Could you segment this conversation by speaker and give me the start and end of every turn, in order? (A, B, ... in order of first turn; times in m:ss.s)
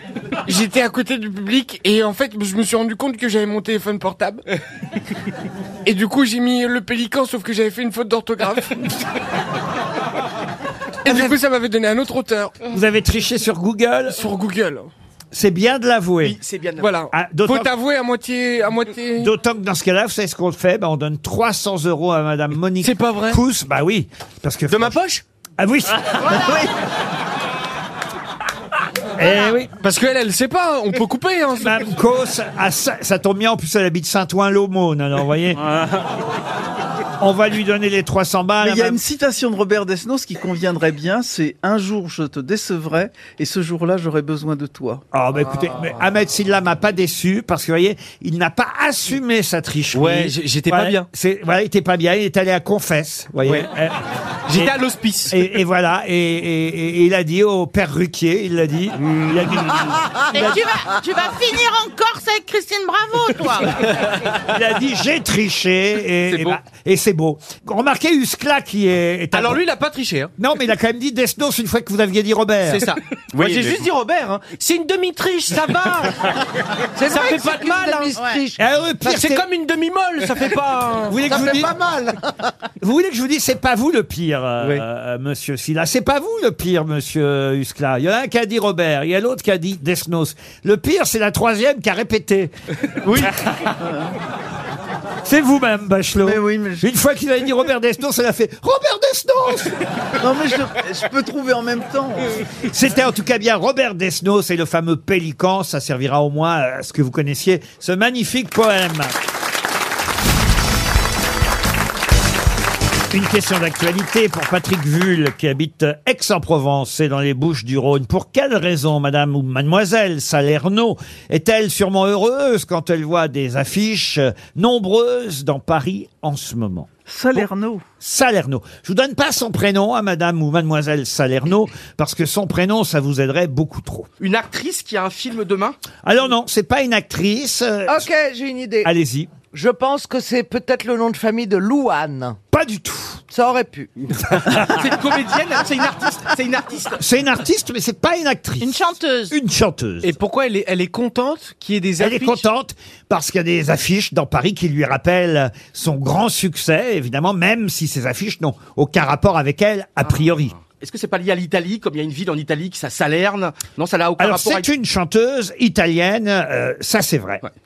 0:00.4-0:04.4 A
0:05.8-0:08.7 A
0:11.0-0:12.6 A
0:11.1-0:11.3 B
0:12.7-0:14.2 B
0:14.1-0:14.9 A
0:15.3-0:16.4 B
0:16.2-0:16.9 C
0:16.8-0:19.3 A
0:17.1-0:17.7 B
0:19.2-0:25.0 B
0:22.8-0:23.4 D
0:24.7-0:25.2 D
0:25.6-0:26.6 B
0:26.2-0:26.7 E
0:29.2-0:29.7 B
0:29.8-0:31.7 D
0:31.6-0:35.6 B
0:37.2-0:39.0 B
0:38.6-0:45.0 E
0:45.1-0:53.9 B
0:49.9-0:51.0 D
0:54.5-0:55.4 D
0:55.3-1:00.5 B
0:59.7-1:00.6 F
1:00.3-1:03.7 G
1:04.5-1:09.6 B
1:09.3-1:10.3 D
1:10.4-1:12.9 B
1:12.7-1:16.2 D
1:17.0-1:18.6 F
1:17.0-1:18.1 D
1:18.6-1:19.4 B
1:19.0-1:21.2 D
1:21.1-1:21.7 B
1:21.3-1:22.2 F
1:22.8-1:32.5 B
1:33.0-1:33.3 D
1:33.8-1:34.1 E
1:35.2-1:39.7 B
1:36.2-1:36.9 E
1:40.2-1:42.4 E
1:42.7-1:49.1 B
1:53.1-2:07.5 B
2:07.1-2:07.8 E
2:08.0-2:14.1 B
2:14.2-2:15.8 C
2:16.0-2:18.1 B
2:17.9-2:18.9 F
2:18.8-2:19.3 B
2:19.5-2:22.4 F
2:22.5-2:23.2 B
2:23.3-2:23.9 F
2:24.6-2:27.0 C
2:27.0-2:30.1 B
2:28.6-2:29.3 G
2:30.0-2:32.4 D
2:32.0-2:40.5 B
2:40.7-2:44.7 C
2:44.2-2:47.4 B